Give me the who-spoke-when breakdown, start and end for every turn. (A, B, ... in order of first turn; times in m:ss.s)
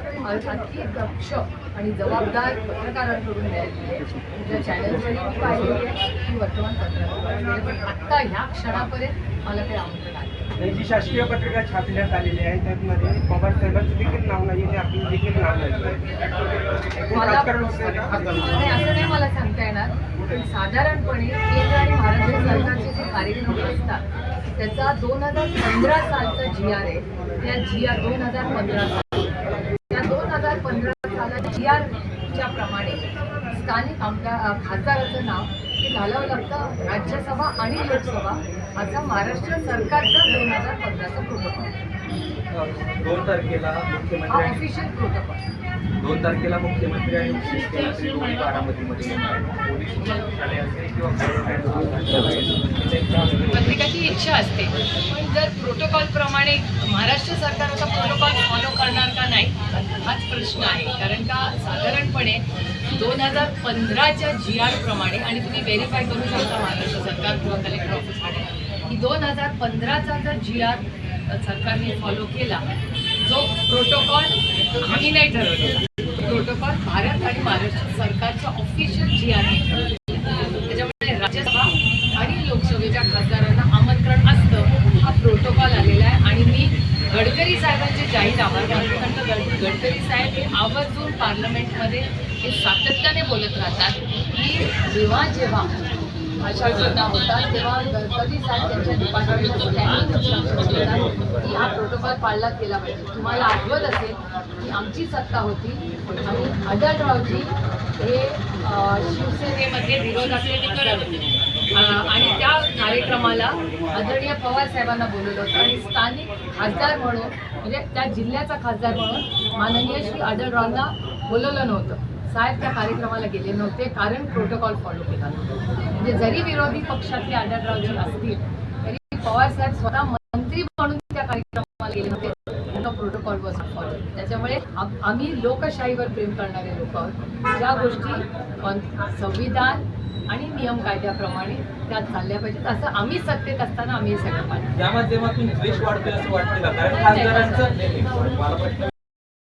0:00.2-0:10.5 A
0:10.6-0:16.2 B
0:17.0-0:18.5 B
0:17.1-0:24.0 A
0:24.6-0:29.3 A
0:29.9-0:41.7 A
0:42.5-0:44.6 C
0:44.3-0:45.4 A
0:46.0-0:53.6 C
0:53.5-1:12.6 A
1:13.2-1:19.9 A
1:20.7-1:35.8 A
1:36.4-2:24.7 A
2:24.8-2:28.9 C
2:26.9-2:27.8 A